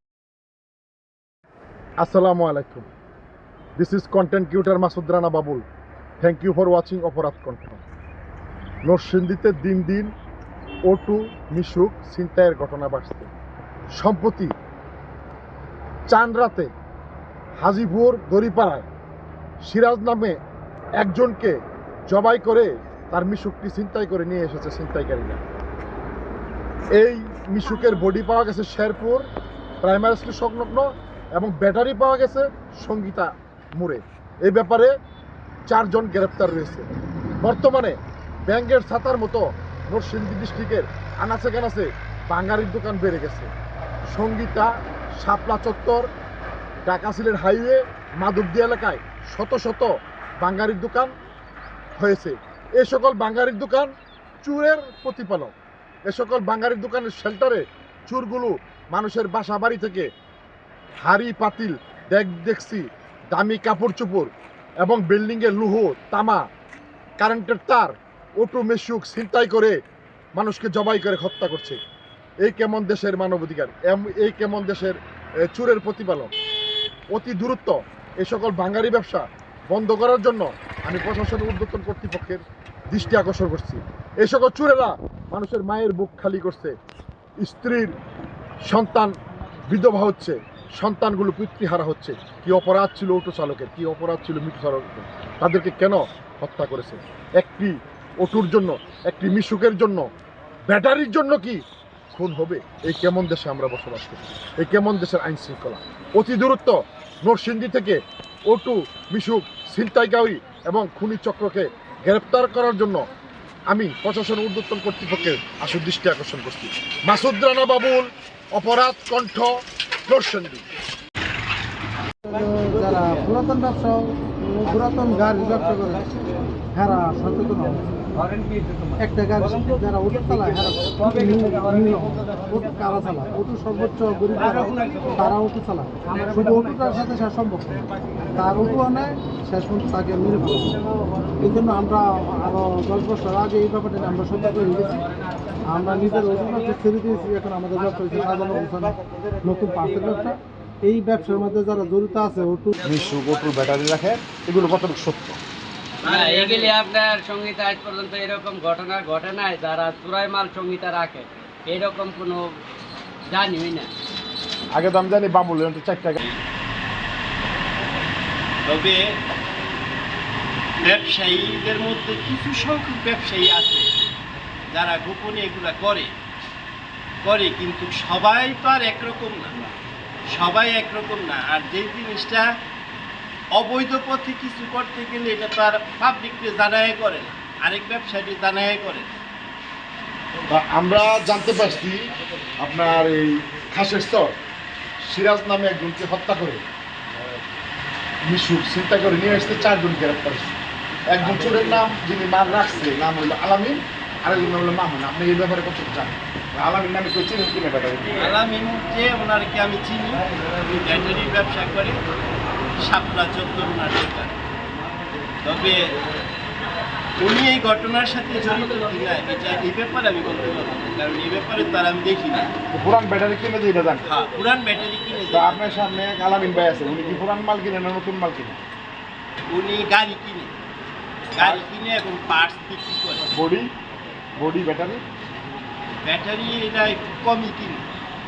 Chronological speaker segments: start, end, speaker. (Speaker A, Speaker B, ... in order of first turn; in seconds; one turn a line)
Speaker A: 2.0-2.9
Speaker A: 3.8-5.7
Speaker A: 6.2-7.8
Speaker A: 8.8-10.1
Speaker A: 10.9-13.3
Speaker A: 14.0-14.5
Speaker A: 16.1-16.7
Speaker A: 17.6-18.9
Speaker A: 19.6-20.4
Speaker A: 21.0-21.6
Speaker A: 22.1-25.4
Speaker A: 26.9-29.3
Speaker A: 29.8-34.9
Speaker A: 35.7-36.9
Speaker A: 37.4-43.5
Speaker A: 44.1-46.1
Speaker A: 46.9-51.1
Speaker A: 52.0-53.9
Speaker A: 54.4-55.5
Speaker A: 56.1-60.1
Speaker A: 61.0-66.4
Speaker A: 67.2-69.8
Speaker A: 70.3-71.8
Speaker A: 72.4-76.3
Speaker A: 77.1-86.7
Speaker A: 87.4-87.9
Speaker A: 88.7-89.1
Speaker A: 89.7-100.1
Speaker A: 100.7-101.6
Speaker A: 102.1-113.1
Speaker A: 113.7-119.5
Speaker A: 120.1-120.6
Speaker B: 122.3-126.1
Speaker B: 126.7-128.1
Speaker B: 129.0-140.8
Speaker B: 141.3-145.1
Speaker B: 145.7-152.8
Speaker A: 152.8-155.4
Speaker C: 156.0-162.6
Speaker C: 163.3-163.9
Speaker A: 164.7-166.2
Speaker D: 168.7-169.2
Speaker D: 170.8-173.9
Speaker D: 174.7-176.1
Speaker D: 177.2-179.6
Speaker D: 180.3-182.5
Speaker D: 183.6-189.1
Speaker A: 190.5-194.3
Speaker A: 195.0-196.6
Speaker A: 198.2-200.5
Speaker A: 201.1-208.2
Speaker D: 208.2-212.0
Speaker D: 212.8-214.3
Speaker D: 215.4-215.9
Speaker D: 217.2-222.5
Speaker A: 222.7-224.0
Speaker D: 224.1-225.8
Speaker A: 225.3-228.6
Speaker D: 229.5-230.5
Speaker D: 231.3-233.3
Speaker A: 233.3-233.7
Speaker A: 234.4-235.0
Speaker D: 236.0-237.8